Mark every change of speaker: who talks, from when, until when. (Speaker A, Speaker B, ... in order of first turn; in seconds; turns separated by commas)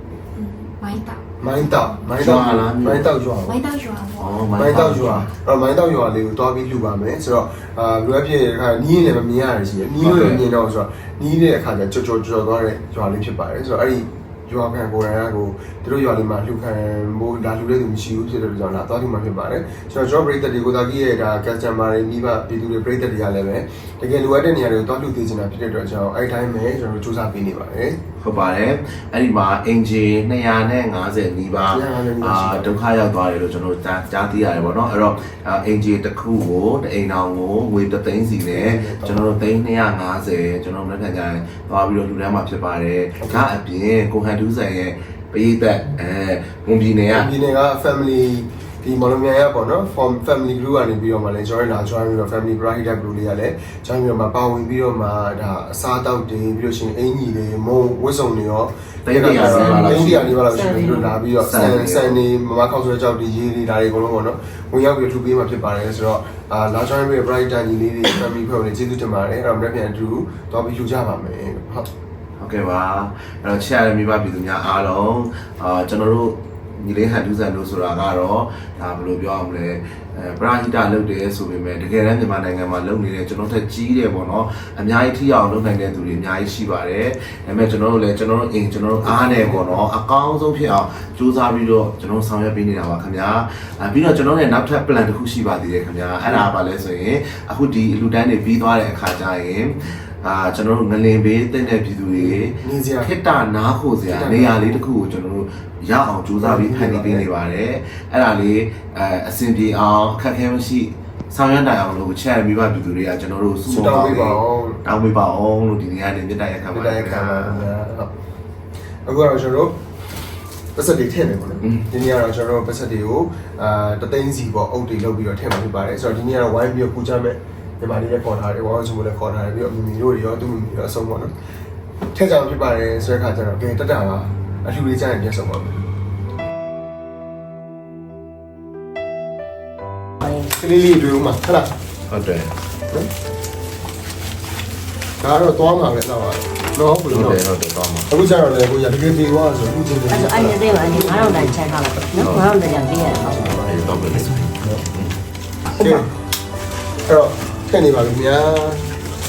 Speaker A: 0.3-2.0, Speaker B: 1.4-3.6, Speaker C: 2.2-3.1, Speaker A: 3.5-4.3, Speaker C: 4.2-5.3, Speaker B: 4.6-28.0, Speaker C: 10.0-10.4, Speaker C: 28.2-47.3, Speaker B: 31.7-32.8, Speaker B: 38.5-39.2, Speaker B: 43.2-43.5, Speaker B: 47.1-71.9, Speaker C: 59.0-60.4, Speaker A: 59.4-61.1, Speaker C: 61.4-62.2, Speaker C: 72.4-117.7, Speaker B: 89.0-89.8, Speaker B: 102.2-103.1, Speaker B: 104.0-104.8, Speaker B: 106.4-107.3, Speaker B: 113.7-114.8, Speaker B: 116.7-118.1, Speaker B: 119.1-119.8, Speaker B: 120.8-131.3, Speaker B: 132.1-135.9, Speaker B: 140.5-141.7, Speaker C: 142.1-142.5, Speaker B: 145.2-147.4, Speaker C: 147.1-148.1, Speaker B: 148.1-151.6, Speaker D: 150.1-153.6, Speaker C: 152.2-152.5, Speaker B: 153.1-154.8, Speaker C: 153.7-155.1, Speaker B: 155.7-156.1, Speaker B: 157.1-158.8